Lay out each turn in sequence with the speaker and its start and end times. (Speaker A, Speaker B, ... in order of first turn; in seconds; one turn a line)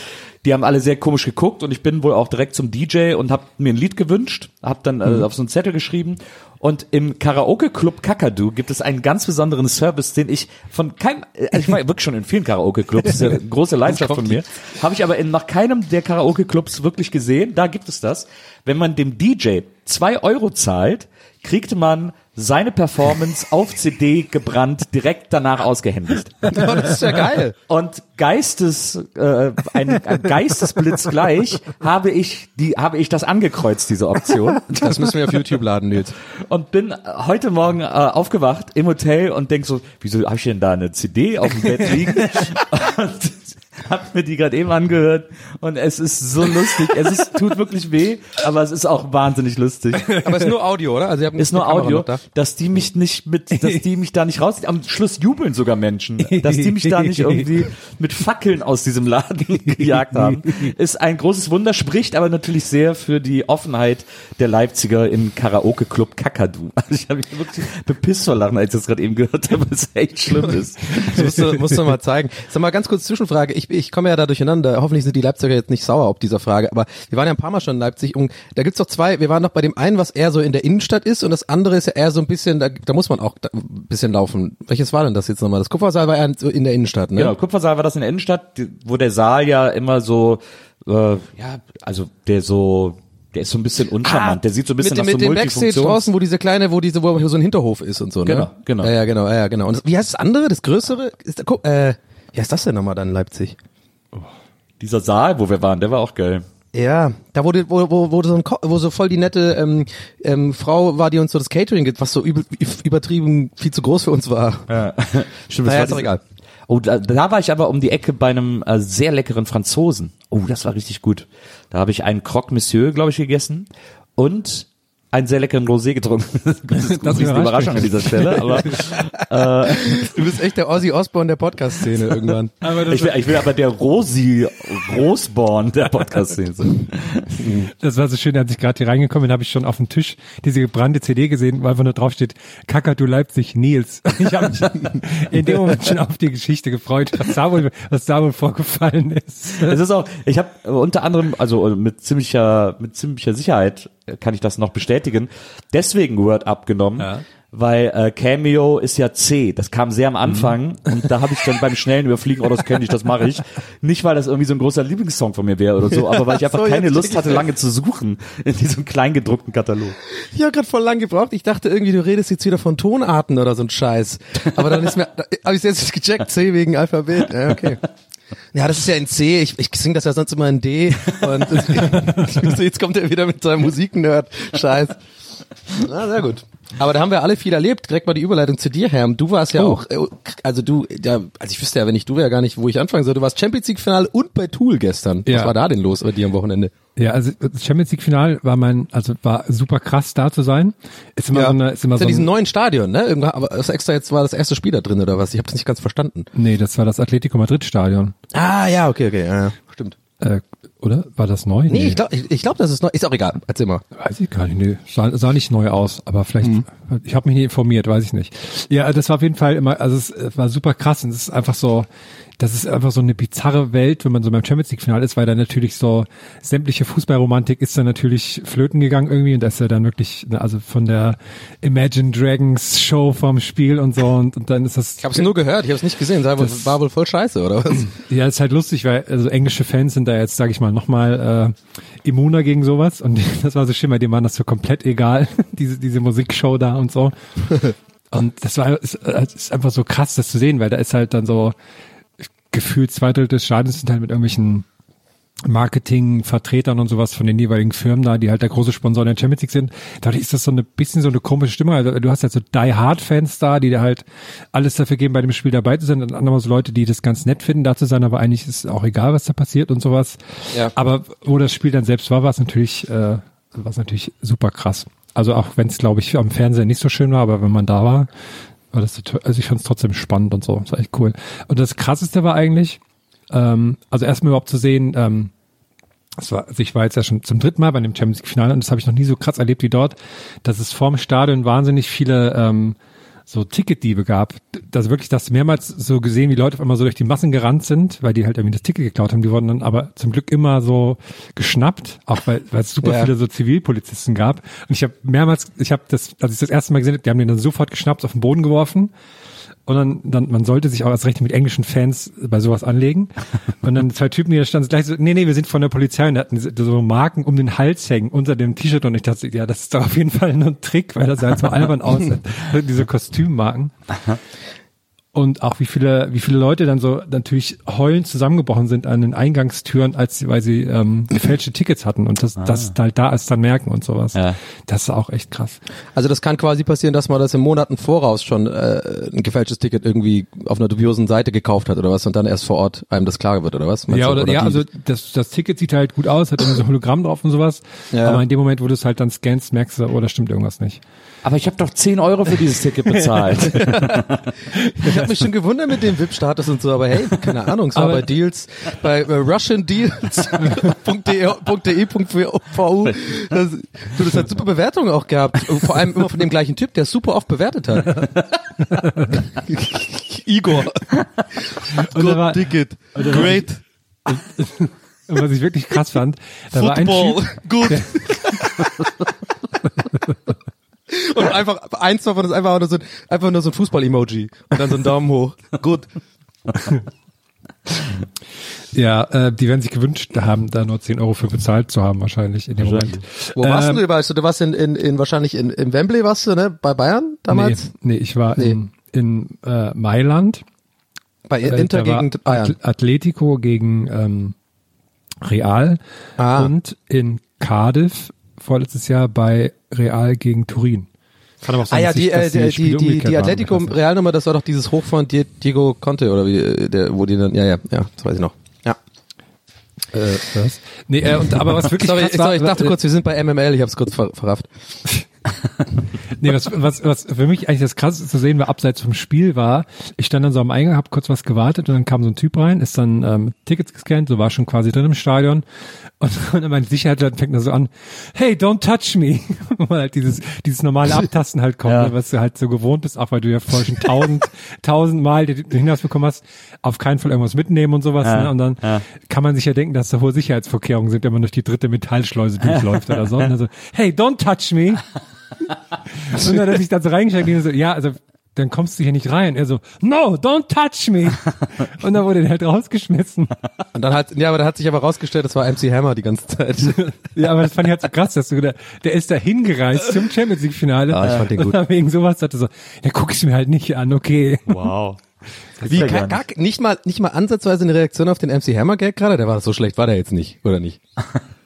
Speaker A: 0.4-27.0
Speaker B: 13.9-14.4
Speaker B: 26.5-27.6
Speaker A: 27.7-35.0
Speaker B: 34.7-36.1
Speaker A: 36.5-50.2
Speaker B: 50.2-52.2
Speaker A: 51.4-71.5
Speaker C: 56.3-57.6
Speaker C: 59.7-60.7
Speaker B: 71.0-87.3
Speaker A: 87.2-96.0
Speaker B: 94.0-103.6
Speaker A: 98.3-98.9
Speaker A: 104.8-106.4
Speaker B: 106.7-114.7
Speaker A: 114.7-116.1
Speaker B: 115.7-116.2
Speaker A: 116.7-130.2
Speaker C: 126.8-128.5
Speaker B: 129.8-132.5
Speaker C: 132.6-133.1
Speaker A: 132.9-137.4
Speaker C: 137.8-149.8
Speaker A: 149.6-170.0
Speaker B: 165.9-167.5
Speaker B: 170.3-177.8
Speaker B: 178.5-185.0
Speaker C: 181.9-182.3
Speaker B: 185.8-196.7
Speaker C: 195.3-195.5
Speaker C: 197.0-202.3
Speaker B: 201.3-206.3
Speaker C: 206.3-208.2
Speaker B: 208.3-210.0
Speaker C: 210.2-212.0
Speaker B: 211.7-213.8
Speaker C: 214.0-221.9
Speaker C: 222.4-235.2
Speaker B: 235.0-237.9
Speaker C: 237.9-247.1
Speaker C: 248.1-251.6
Speaker C: 252.5-254.7
Speaker C: 255.5-270.2
Speaker C: 270.7-278.1
Speaker C: 278.7-282.8
Speaker C: 283.3-285.3
Speaker C: 286.2-292.8
Speaker C: 293.3-308.9
Speaker B: 302.8-303.1
Speaker C: 309.7-323.7
Speaker C: 325.1-335.6
Speaker A: 332.4-332.7
Speaker B: 335.9-344.6
Speaker C: 343.9-350.8
Speaker B: 347.9-348.2
Speaker A: 351.2-354.3
Speaker B: 353.6-353.9
Speaker B: 354.8-368.1
Speaker C: 357.8-358.1
Speaker A: 362.9-363.1
Speaker C: 368.7-369.2
Speaker B: 369.4-371.0
Speaker B: 371.7-373.6
Speaker C: 371.8-373.4
Speaker C: 374.1-378.0
Speaker B: 376.5-378.9
Speaker B: 380.9-385.9
Speaker C: 388.7-393.9
Speaker A: 392.5-393.0
Speaker B: 393.4-397.7
Speaker C: 397.3-400.4
Speaker B: 401.3-402.6
Speaker C: 401.4-404.4
Speaker C: 405.2-410.9
Speaker B: 406.2-406.5
Speaker C: 411.4-413.8
Speaker B: 411.7-418.8
Speaker C: 419.9-422.8
Speaker B: 421.4-424.5
Speaker C: 426.2-435.4
Speaker C: 436.0-454.9
Speaker A: 441.7-441.9
Speaker A: 448.0-448.8
Speaker A: 452.5-453.2
Speaker C: 456.0-463.3
Speaker B: 463.7-467.0
Speaker C: 467.1-474.5
Speaker B: 470.9-471.6
Speaker A: 474.5-475.0
Speaker C: 475.6-476.0
Speaker B: 475.7-480.8
Speaker A: 475.7-476.2